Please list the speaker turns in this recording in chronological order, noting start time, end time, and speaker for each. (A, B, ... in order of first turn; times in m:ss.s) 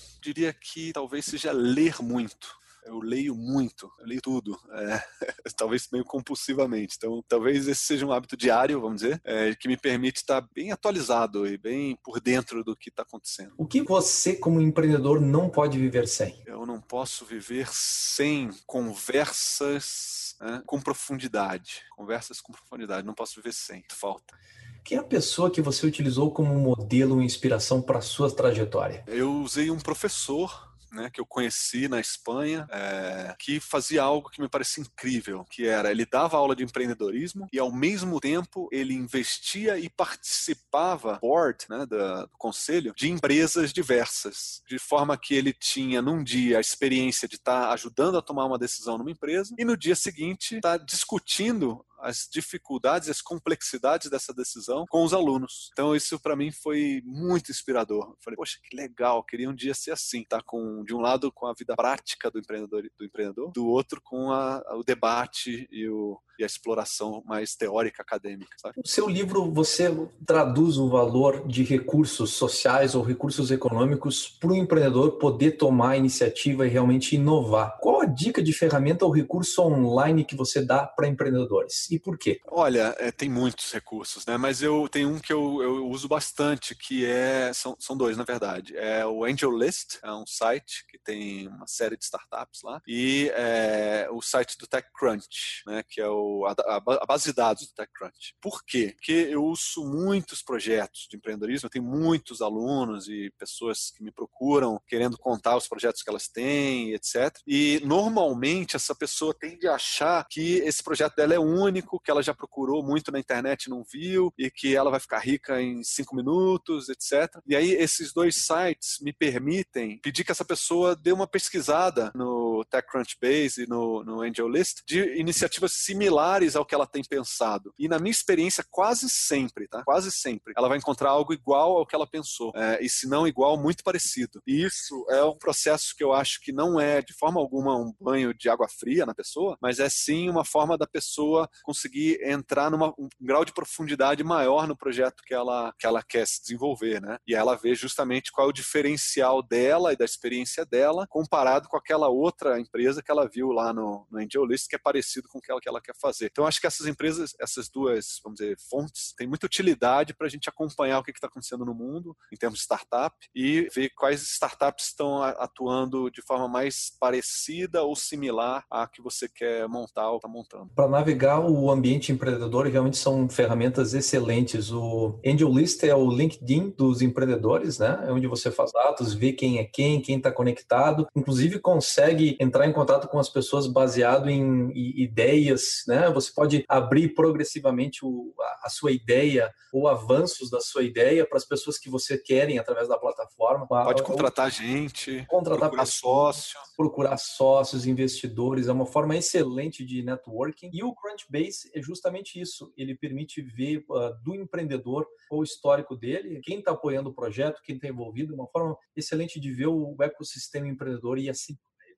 0:00.2-0:13.6 A
0:13.6-0:16.4 B
0:16.4-0:24.3 A
0:24.8-0:29.0 B
0:29.1-1:08.8 A
1:08.8-1:22.4 B
1:22.5-2:50.7 A
2:50.7-3:14.3 B
3:13.8-3:16.7 A
3:15.3-3:16.0 B
3:16.7-3:31.8 B